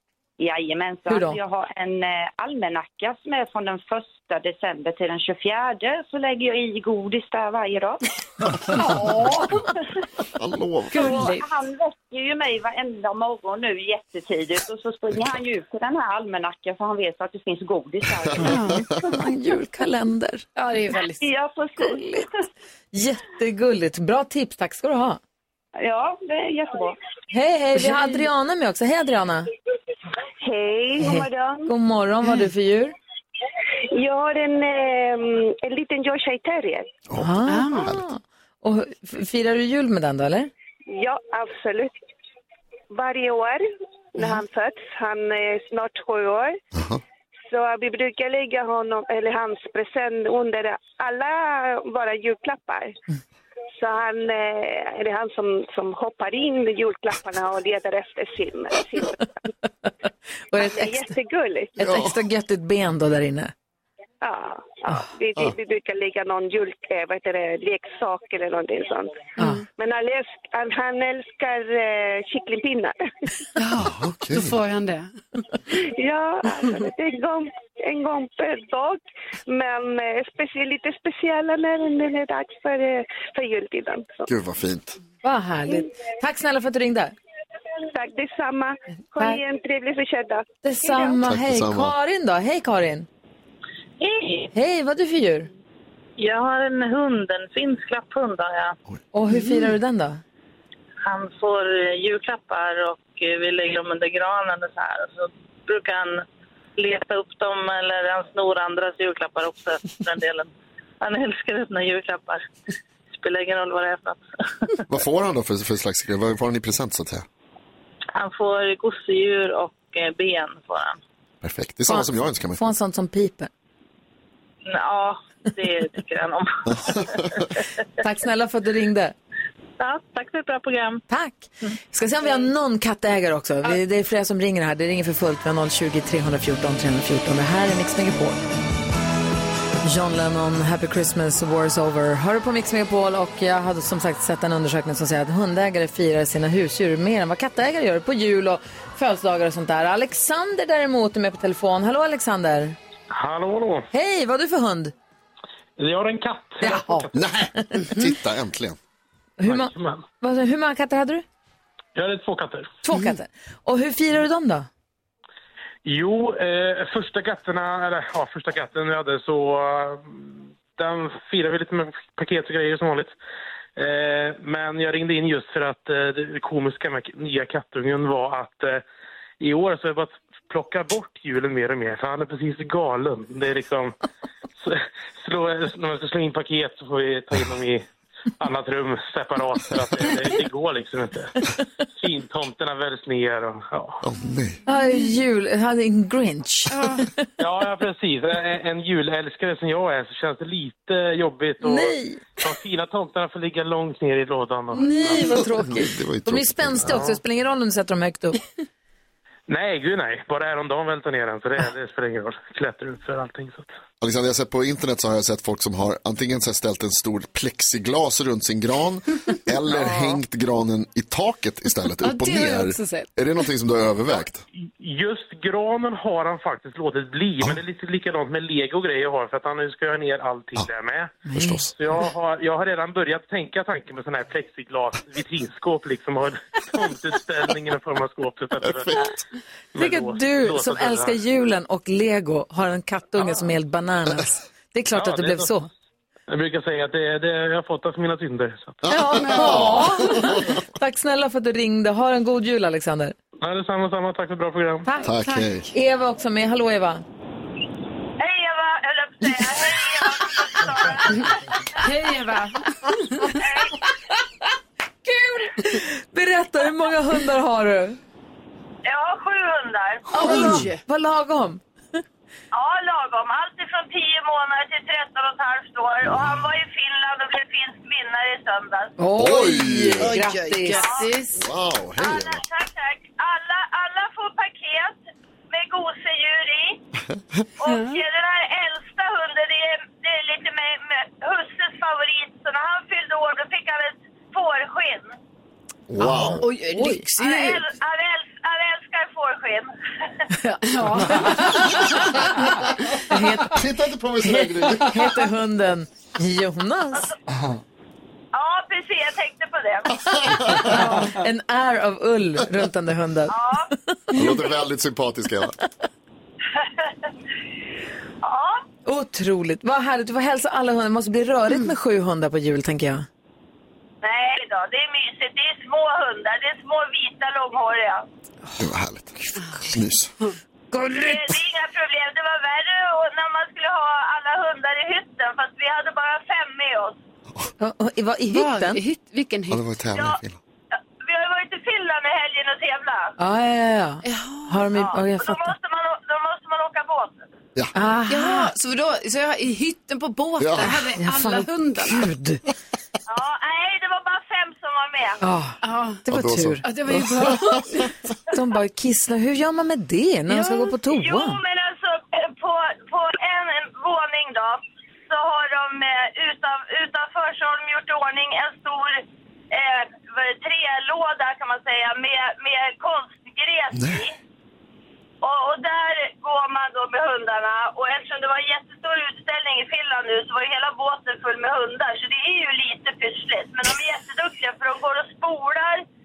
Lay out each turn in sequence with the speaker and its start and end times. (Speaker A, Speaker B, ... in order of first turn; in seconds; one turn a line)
Speaker A: 0.4-8.0
Speaker B: 1.1-1.4
Speaker C: 8.8-9.5
Speaker D: 10.3-11.0
Speaker C: 10.9-11.5
Speaker A: 10.9-18.6
Speaker D: 18.3-18.6
Speaker C: 18.4-18.9
Speaker B: 18.5-20.4
Speaker C: 20.6-21.2
Speaker A: 21.2-22.3
Speaker B: 21.8-22.2
Speaker B: 22.9-25.2
Speaker A: 25.8-26.9
Speaker B: 27.3-29.5
Speaker E: 30.4-31.7
Speaker B: 31.0-32.9
Speaker E: 33.9-36.9
Speaker D: 37.1-38.0
Speaker B: 37.1-40.5
Speaker C: 37.5-37.9
Speaker E: 40.9-41.9
Speaker E: 42.9-46.6
Speaker D: 46.7-47.0
Speaker E: 47.5-53.0
Speaker E: 53.8-59.3
Speaker B: 60.5-61.1
Speaker E: 60.5-61.8
Speaker B: 61.8-63.5
Speaker D: 61.8-62.1
Speaker E: 64.2-73.0
Speaker B: 69.4-69.6
Speaker C: 69.4-69.6
Speaker C: 73.6-75.2
Speaker D: 73.8-74.6
Speaker E: 75.9-84.3
Speaker D: 84.3-85.0
Speaker B: 85.2-87.1
Speaker E: 87.9-91.1
Speaker B: 90.6-93.1
Speaker D: 91.2-91.9
Speaker F: 94.0-94.5
Speaker B: 94.5-95.5
Speaker F: 96.2-98.8
Speaker B: 99.1-100.2
Speaker F: 101.0-106.2
Speaker F: 106.8-112.5
Speaker F: 113.1-114.7
Speaker D: 114.8-117.2
Speaker F: 118.1-121.0
Speaker D: 121.4-122.6
Speaker B: 121.9-123.5
Speaker F: 124.6-127.6
Speaker D: 126.7-127.5
Speaker B: 128.0-129.1
Speaker F: 129.8-131.0
Speaker B: 131.1-138.4
Speaker B: 139.8-152.8
Speaker G: 153.1-153.9
Speaker B: 153.9-154.9
Speaker G: 155.8-157.1
Speaker B: 156.6-157.9
Speaker D: 157.1-158.8
Speaker C: 157.8-158.1
Speaker B: 159.4-161.2
Speaker G: 159.4-160.0
Speaker G: 161.9-162.8
Speaker B: 162.8-164.7
Speaker C: 162.9-163.2
Speaker G: 165.8-173.1
Speaker G: 173.8-178.8
Speaker G: 179.4-183.9
Speaker G: 184.6-187.8
Speaker G: 188.4-191.4
Speaker G: 191.9-194.0
Speaker D: 194.0-194.6
Speaker B: 194.7-197.2
Speaker C: 196.7-197.1
Speaker G: 197.4-205.4
Speaker B: 201.6-202.3
Speaker B: 204.7-208.4
Speaker D: 205.2-207.0
Speaker G: 206.8-207.2
Speaker G: 209.5-213.7
Speaker D: 214.0-224.4
Speaker C: 222.0-223.1
Speaker G: 224.6-231.2
Speaker B: 231.2-231.6
Speaker D: 231.3-231.7
Speaker G: 231.7-239.1
Speaker D: 238.6-239.2
Speaker G: 239.7-241.2
Speaker B: 239.7-245.7
Speaker G: 244.9-245.5
Speaker G: 246.3-248.8
Speaker D: 248.8-250.6
Speaker B: 248.9-253.1
Speaker C: 248.9-250.4
Speaker G: 253.4-254.9
Speaker B: 254.8-255.1
Speaker D: 255.0-255.7
Speaker B: 255.7-257.0
Speaker H: 258.2-261.4
Speaker C: 261.8-263.3
Speaker H: 263.3-263.8
Speaker B: 265.1-268.0
Speaker H: 268.8-270.5
Speaker C: 270.1-270.8
Speaker B: 270.2-271.6
Speaker H: 272.5-278.9
Speaker B: 279.0-281.0
Speaker D: 279.1-280.2
Speaker C: 279.9-281.4
Speaker H: 280.7-281.1
Speaker D: 281.3-282.4
Speaker H: 282.0-286.8
Speaker D: 287.1-287.4
Speaker H: 287.6-295.1
Speaker C: 287.6-288.0
Speaker D: 295.9-296.5
Speaker C: 296.0-297.7
Speaker B: 296.0-297.0
Speaker H: 297.2-299.7
Speaker B: 300.4-303.6
Speaker C: 300.6-302.3
Speaker D: 303.4-305.1
Speaker B: 304.2-307.1
Speaker H: 308.3-310.6
Speaker D: 310.4-310.7
Speaker B: 310.5-314.4
Speaker C: 310.7-311.1
Speaker H: 313.3-313.7
Speaker D: 314.1-315.6
Speaker H: 316.6-316.9
Speaker H: 318.2-318.6
Speaker B: 318.9-323.1
Speaker H: 324.0-328.1
Speaker D: 328.6-330.1
Speaker B: 330.7-331.3
Speaker H: 330.9-337.0
Speaker B: 337.6-338.8
Speaker C: 338.3-339.6
Speaker D: 339.5-340.4
Speaker H: 339.9-340.2
Speaker H: 340.7-343.1
Speaker B: 343.2-345.5
Speaker C: 344.0-344.7
Speaker H: 344.7-347.2
Speaker B: 347.7-348.5
Speaker C: 348.1-352.1
Speaker D: 350.4-350.9
Speaker B: 350.9-352.4
Speaker H: 353.1-355.2
Speaker B: 355.2-357.1
Speaker C: 355.6-356.0
Speaker D: 356.1-356.6
Speaker C: 356.6-357.9
Speaker B: 358.3-361.4
Speaker C: 360.3-360.7
Speaker H: 360.9-374.1
Speaker D: 373.7-374.1
Speaker H: 375.2-385.8